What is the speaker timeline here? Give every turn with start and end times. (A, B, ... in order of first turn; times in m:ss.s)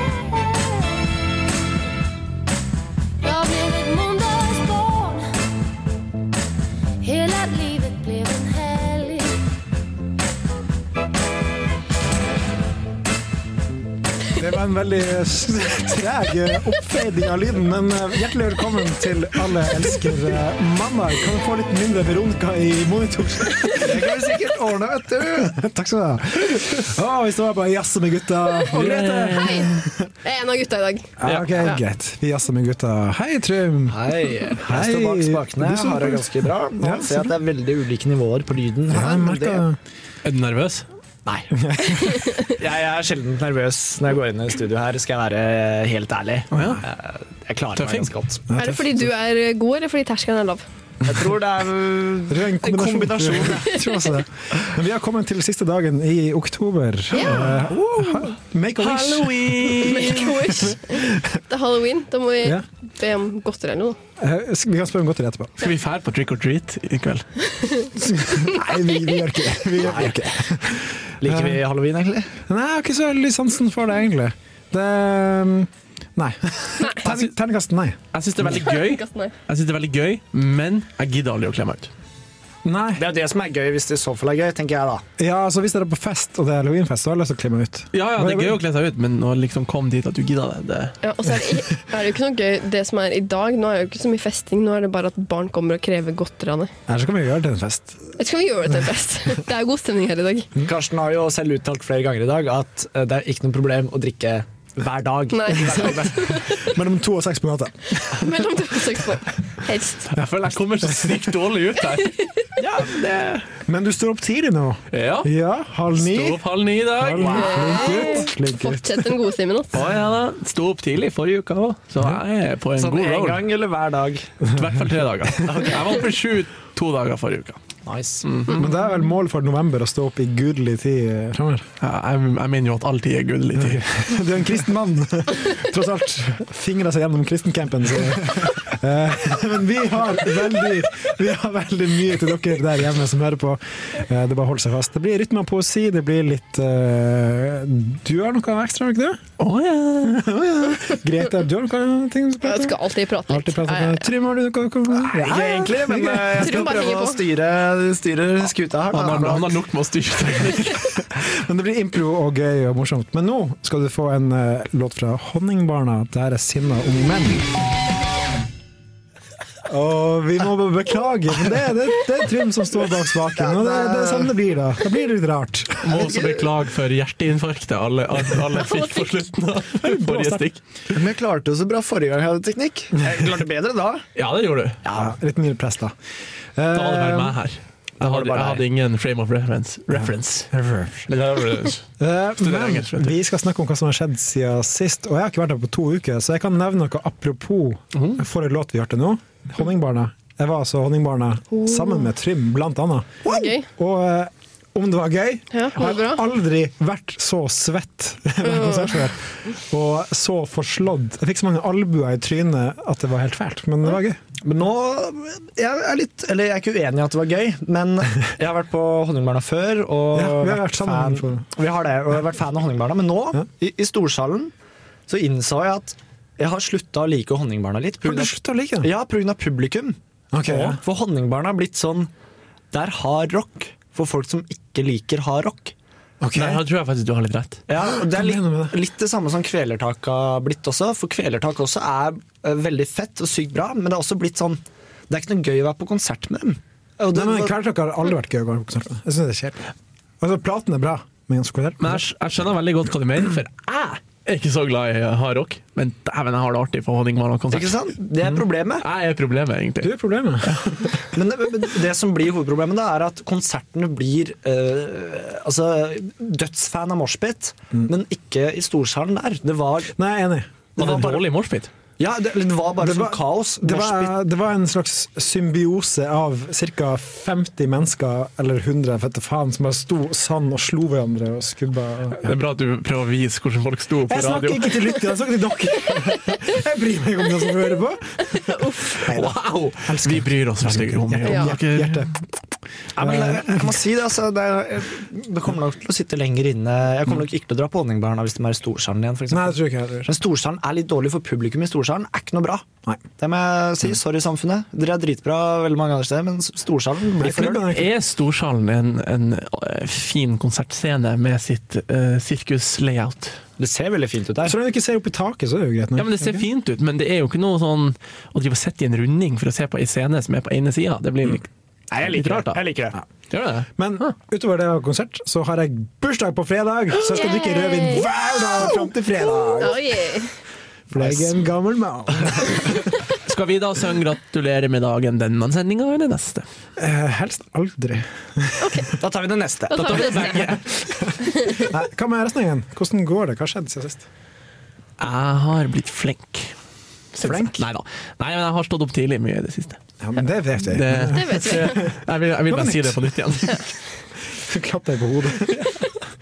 0:03.2-0:05.3 A
0:07.0-0:09.3 A
0:14.3-0:24.1 B
0:23.8-0:25.5 C
0:25.2-0:30.1 B
0:28.7-0:29.8 D
0:29.4-0:29.7 E
0:30.2-0:31.8 E
0:31.2-0:34.0 B
0:31.2-0:31.5 D
0:33.9-0:39.6 C
0:34.5-0:37.4 B
0:38.9-0:39.8 B
0:40.2-0:40.8 D
0:41.2-0:48.4 C
0:41.5-0:42.4 B
0:46.5-0:46.8 D
0:46.5-0:46.8 B
0:47.8-0:48.1 D
0:48.5-0:49.1 B
0:48.6-0:50.6 E
0:51.0-0:53.9 C
0:52.3-1:01.3 B
0:57.1-0:57.5 E
0:57.5-1:00.4 D
0:59.8-1:04.0 E
1:04.2-1:05.6 B
1:05.6-1:07.3 D
1:07.6-1:08.6 E
1:07.9-1:11.6 B
1:09.8-1:10.2 C
1:11.2-1:12.3 C
1:12.5-1:18.6 B
1:18.1-1:21.9 D
1:18.6-1:19.3 E
1:22.6-1:23.0 B
1:23.0-1:25.0 C
1:25.2-1:28.6 B
1:27.9-1:30.9 D
1:31.0-1:36.7 E
1:36.9-1:38.0 B
1:38.2-1:40.5 E
1:40.6-1:46.4 C
1:45.3-1:46.6 E
1:46.4-1:48.3 B
1:48.1-1:50.0 E
1:50.0-1:53.4 D
1:53.6-1:59.2 B
1:54.9-1:55.3 D
1:55.9-1:57.6 D
1:57.2-1:57.9 C
1:57.2-1:59.8 E
1:59.7-2:03.5 D
2:02.8-2:04.3 C
2:04.5-2:07.6 D
2:05.4-2:06.1 C
2:07.8-2:08.5 C
2:08.2-2:08.7 D
2:08.5-2:11.7 B
2:11.8-2:14.0 D
2:13.7-2:29.2 B
2:29.4-2:30.3 D
2:30.0-2:36.6 B
2:32.4-2:34.1 E
2:35.1-2:39.6 C
2:36.4-2:37.2 E
2:38.9-2:41.0 D
2:41.0-2:47.4 B
2:49.6-2:56.1 B
2:53.3-2:54.3 C
2:55.8-3:00.6 D
2:59.8-3:00.4 B
3:00.9-3:04.0 C
3:04.2-3:04.8 D
3:04.8-3:05.1 C
3:04.9-3:05.9 B
3:06.6-3:07.4 B
3:06.7-3:10.5 D
3:08.0-3:08.6 C
3:10.5-3:11.1 B
3:11.1-3:11.8 D
3:12.0-3:34.2 B
3:12.4-3:13.2 D
3:23.2-3:23.7 E
3:25.5-3:26.2 E
3:28.4-3:29.0 E
3:34.4-3:44.5 C
3:40.1-3:41.5 B
3:45.1-3:52.1 C
3:48.0-3:48.9 B
3:50.3-3:50.8 B
3:52.7-3:55.7 C
3:56.2-3:56.6 B
3:56.3-3:57.6 D
3:57.7-4:07.5 C
3:57.9-3:58.8 B
4:07.1-4:09.7 B
4:10.2-4:12.0 B
4:11.8-4:17.9 D
4:17.5-4:18.8 C
4:18.8-4:20.7 D
4:19.8-4:21.0 B
4:21.1-4:29.9 C
4:29.9-4:30.5 B
4:30.8-4:31.7 D
4:30.8-4:31.3 C
4:32.0-4:34.2 C
4:32.8-4:42.3 B
4:42.2-4:44.8 D
4:44.1-4:52.1 B
4:48.3-4:48.8 E
4:49.0-4:52.2 D
4:51.2-4:51.6 E
4:53.0-5:02.6 C
4:53.0-4:53.8 B
4:59.3-5:00.1 B
5:03.2-5:07.6 C
5:07.2-5:07.9 B
5:07.6-5:13.4 D
5:13.6-5:14.5 C
5:14.4-5:16.4 B
5:16.0-5:21.5 D
5:21.9-5:23.0 C
5:22.1-5:22.6 D
5:23.3-5:24.1 D
5:23.8-5:29.8 B
5:27.0-5:28.1 E
5:29.6-5:30.3 E
5:30.9-5:32.9 B
5:31.0-5:31.3 C
5:33.1-5:36.4 D
5:36.8-5:38.9 B
5:38.6-5:38.9 E
5:39.0-5:40.3 C
5:39.7-5:40.6 E
5:39.7-5:41.1 D
5:41.1-5:41.7 E
5:41.4-5:44.0 B
5:45.0-5:46.5 D
5:47.1-5:49.8 D
5:47.2-5:47.6 B
5:50.0-5:53.6 B
5:50.7-5:53.6 D
5:51.1-5:51.9 E
5:54.3-5:55.8 B